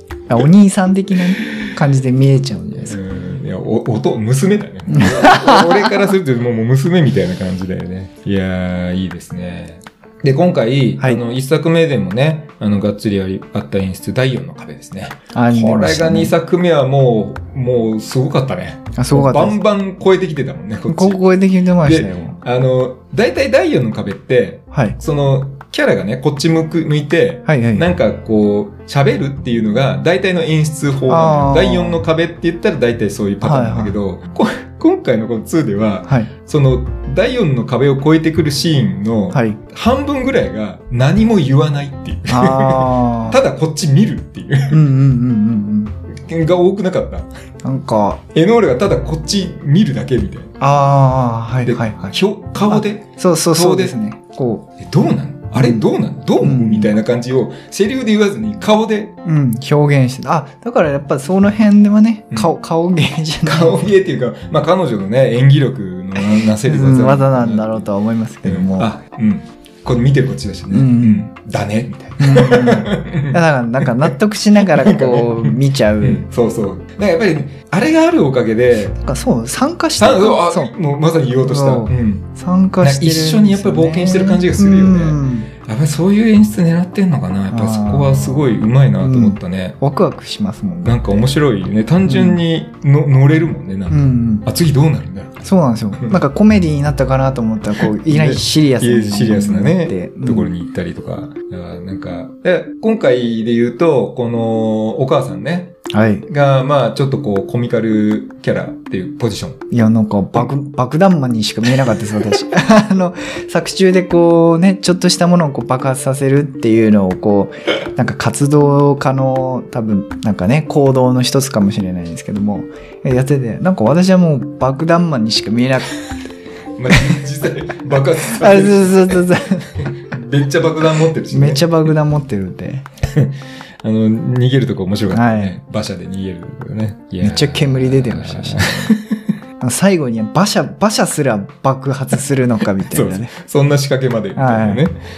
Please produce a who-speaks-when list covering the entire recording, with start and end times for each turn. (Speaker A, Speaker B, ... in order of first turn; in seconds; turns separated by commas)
Speaker A: 0.3-3.0, Speaker B: 1.1-1.8, Speaker B: 2.8-44.8, Speaker A: 4.9-6.1, Speaker A: 15.3-16.3, Speaker A: 19.0-19.6, Speaker A: 20.9-22.4, Speaker A: 24.7-25.0, Speaker A: 27.5-27.9, Speaker A: 31.1-32.0, Speaker A: 33.4-34.0, Speaker A: 39.3-39.6, Speaker A: 42.3-43.4, Speaker A: 44.7-46.0, Speaker B: 46.1-47.3, Speaker A: 47.6-48.2, Speaker B: 48.3-50.5, Speaker A: 50.6-54.7, Speaker B: 51.6-54.0, Speaker B: 54.8-59.1, Speaker A: 55.6-55.9, Speaker A: 56.4-56.9, Speaker A: 59.2-63.8, Speaker B: 63.5-67.9, Speaker A: 66.2-68.9, Speaker B: 68.4-79.0, Speaker A: 70.7-71.3, Speaker A: 72.2-76.2, Speaker A: 79.0-80.7, Speaker B: 80.0-82.3, Speaker A: 81.4-85.5, Speaker B: 82.8-89.8, Speaker A: 87.5-91.2, Speaker B: 90.8-96.2, Speaker A: 92.0-92.4, Speaker A: 93.9-94.5, Speaker A: 95.4-100.5, Speaker B: 97.8-105.8, Speaker A: 105.9-106.2, Speaker B: 106.3-109.6, Speaker A: 109.7-126.0, Speaker B: 111.7-112.2, Speaker B: 126.8-131.7, Speaker A: 126.9-127.2, Speaker A: 128.2-129.8, Speaker A: 131.3-132.8, Speaker B: 133.1-139.2, Speaker A: 135.1-135.6, Speaker A: 137.2-139.0, Speaker A: 139.6-143.3, Speaker B: 142.8-145.0, Speaker A: 144.3-144.8